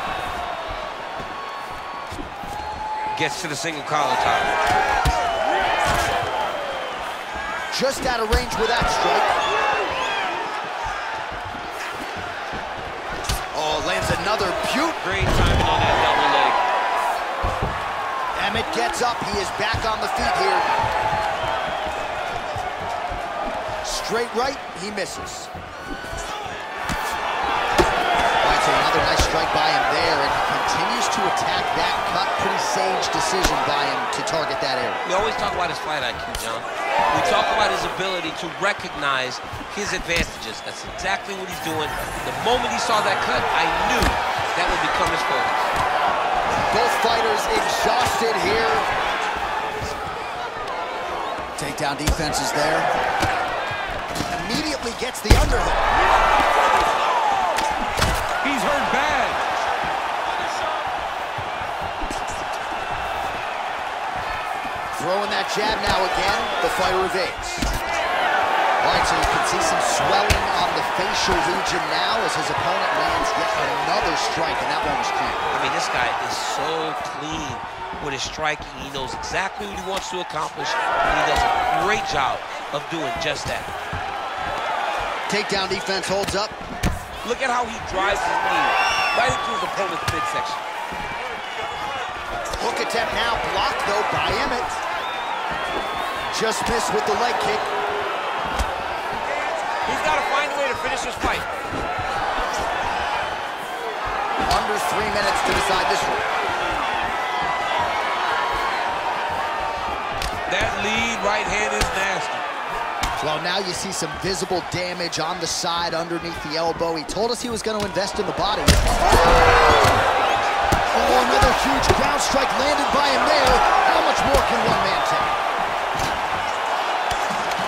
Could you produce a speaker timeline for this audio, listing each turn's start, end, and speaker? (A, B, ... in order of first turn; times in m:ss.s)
0:03.1-0:04.6 A
0:07.7-0:09.3 B
0:13.5-0:15.0 B
0:15.0-0:16.6 A
0:18.4-0:20.7 B
0:23.8-0:25.5 B
0:28.4-0:35.0 B
0:35.0-0:45.7 A
0:46.7-0:48.9 B
0:51.6-0:52.9 B
0:54.3-0:55.9 B
0:58.4-0:59.4 A
1:04.9-1:07.7 B
1:08.8-1:15.5 B
1:15.5-1:23.7 A
1:25.3-1:26.6 B
1:27.2-1:30.6 A
1:32.6-1:34.8 B
1:36.3-1:37.7 B
1:39.8-1:41.5 A
1:44.5-1:46.2 B
1:50.5-1:52.5 A
1:53.2-1:59.2 B
2:00.9-2:05.4 B